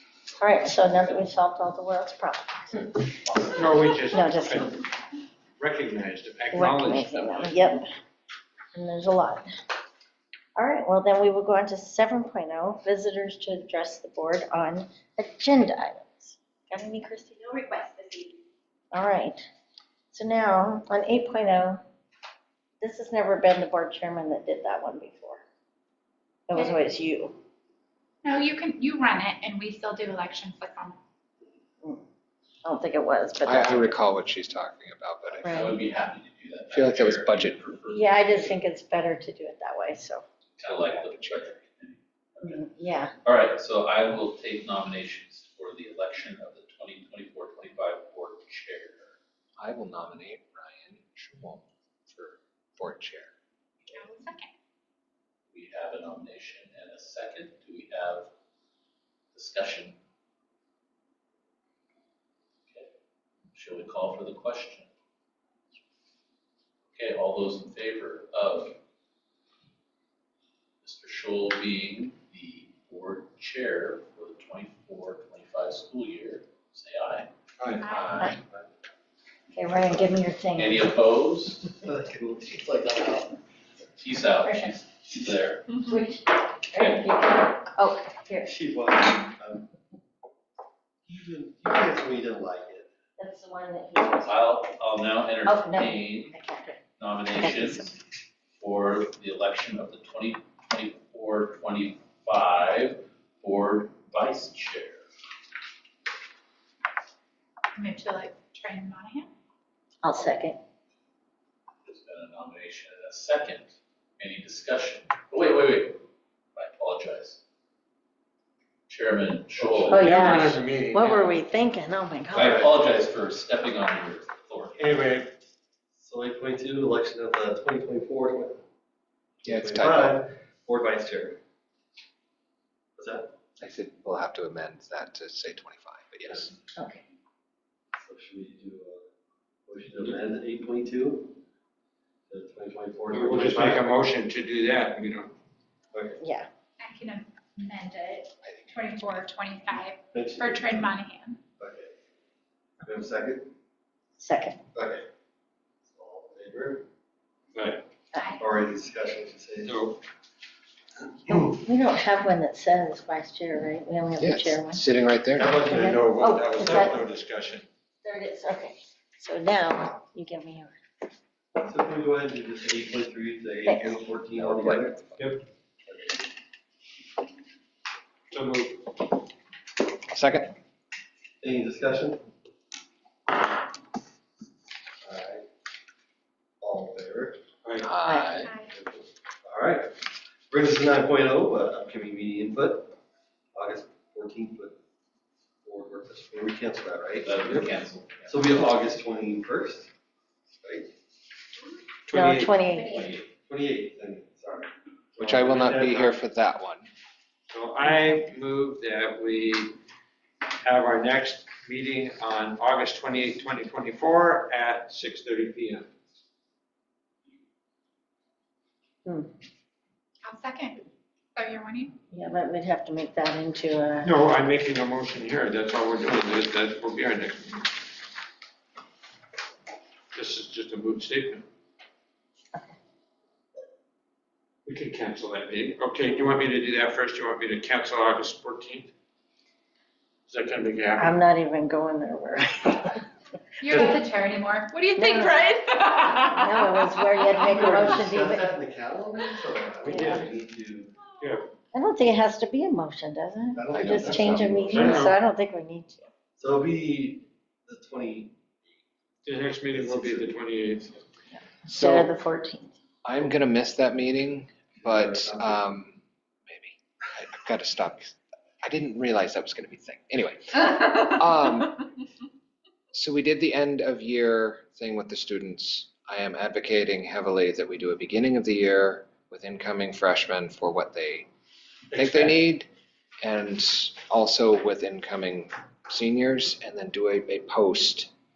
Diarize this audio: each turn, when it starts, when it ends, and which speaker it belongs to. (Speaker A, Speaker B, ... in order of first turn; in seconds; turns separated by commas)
Speaker A: 0.4-3.0, Speaker B: 3.2-3.8, Speaker C: 3.5-4.8, Speaker A: 4.1-4.7, Speaker C: 5.6-7.6, Speaker A: 6.5-7.9, Speaker A: 8.7-9.5, Speaker A: 10.6-17.5, Speaker A: 18.9-19.4, Speaker A: 20.1-21.8, Speaker A: 22.8-25.4, Speaker A: 26.5-27.4, Speaker D: 28.2-31.0, Speaker A: 32.6-34.0, Speaker E: 33.4-35.8, Speaker B: 35.3-38.6, Speaker A: 35.4-35.8, Speaker E: 36.7-37.6, Speaker A: 37.9-40.2, Speaker B: 40.6-42.6, Speaker E: 40.6-41.5, Speaker A: 42.4-43.1, Speaker B: 43.2-49.1, Speaker E: 49.6-53.3, Speaker D: 53.9-54.5, Speaker B: 55.5-58.3, Speaker B: 59.3-60.0, Speaker B: 63.5-64.9, Speaker B: 66.9-68.7, Speaker B: 70.8-77.3, Speaker D: 77.8-78.2, Speaker B: 77.9-78.4, Speaker F: 78.3-78.7, Speaker A: 79.5-80.9, Speaker B: 80.5-81.7, Speaker F: 81.8-83.4, Speaker B: 84.0-85.8, Speaker A: 84.4-84.7, Speaker A: 85.8-88.5, Speaker B: 86.7-87.1, Speaker F: 88.5-89.7, Speaker F: 91.0-92.9, Speaker A: 93.2-94.4, Speaker B: 94.2-96.3, Speaker A: 95.4-96.8, Speaker B: 97.0-98.0, Speaker A: 97.3-97.9, Speaker B: 98.5-105.0, Speaker D: 107.8-109.3, Speaker A: 110.0-110.6, Speaker B: 111.8-116.0, Speaker B: 116.5-117.4, Speaker B: 118.9-120.4, Speaker A: 119.8-122.7, Speaker C: 119.9-121.4, Speaker B: 122.3-124.9, Speaker C: 124.8-125.3, Speaker F: 126.0-128.6, Speaker E: 129.4-130.2, Speaker F: 129.4-131.4, Speaker F: 133.0-133.3, Speaker E: 133.6-136.5, Speaker A: 136.8-137.0, Speaker F: 137.9-139.0, Speaker F: 139.7-141.4, Speaker F: 142.3-143.9, Speaker C: 143.1-145.3, Speaker F: 145.9-146.2, Speaker A: 146.2-146.5, Speaker D: 146.8-151.4, Speaker E: 148.4-149.2, Speaker F: 149.7-151.0, Speaker F: 151.6-151.9, Speaker F: 152.8-153.5, Speaker A: 154.2-154.6, Speaker F: 154.7-155.1, Speaker F: 155.9-156.8, Speaker C: 157.5-157.8, Speaker D: 158.2-158.4, Speaker F: 158.4-159.7, Speaker C: 159.6-160.0, Speaker A: 161.5-164.8, Speaker E: 164.2-165.6, Speaker F: 165.3-166.0, Speaker A: 165.7-167.0, Speaker C: 165.7-167.6, Speaker A: 168.0-170.8, Speaker F: 171.6-175.2, Speaker A: 173.7-174.1, Speaker E: 174.4-174.9, Speaker C: 175.2-175.4, Speaker F: 175.8-176.3, Speaker C: 178.3-178.8, Speaker E: 180.1-180.5, Speaker F: 181.4-182.2, Speaker F: 185.0-185.4, Speaker F: 186.6-187.4, Speaker C: 187.6-187.9, Speaker E: 187.8-188.5, Speaker A: 188.0-188.4, Speaker D: 188.3-188.7, Speaker F: 188.7-189.9, Speaker F: 190.5-192.9, Speaker F: 193.5-194.8, Speaker F: 195.6-199.9, Speaker B: 197.2-198.8, Speaker F: 200.6-200.9, Speaker C: 202.1-202.7, Speaker A: 202.1-203.2, Speaker D: 202.7-203.1, Speaker F: 203.2-204.7, Speaker C: 205.2-206.2, Speaker E: 205.2-206.9, Speaker C: 207.5-209.8, Speaker C: 210.6-215.9, Speaker A: 219.0-219.3, Speaker D: 220.2-220.8, Speaker D: 221.3-221.9, Speaker A: 222.1-224.2, Speaker C: 224.0-227.7, Speaker C: 230.1-231.4, Speaker C: 234.7-238.9, Speaker C: 240.3-241.2, Speaker A: 241.0-243.0, Speaker D: 243.6-246.5, Speaker A: 244.9-245.6, Speaker A: 246.2-248.5, Speaker F: 247.4-250.9, Speaker A: 249.8-250.2, Speaker C: 249.9-250.3, Speaker C: 251.2-251.5, Speaker A: 251.7-256.1, Speaker F: 253.6-255.0, Speaker C: 254.7-255.2, Speaker F: 256.4-258.4, Speaker C: 259.2-261.0, Speaker F: 259.7-260.4, Speaker A: 261.3-262.7, Speaker E: 261.6-262.1, Speaker E: 263.0-271.9, Speaker F: 264.8-265.6, Speaker E: 272.9-281.3, Speaker E: 281.9-282.7, Speaker E: 283.2-288.1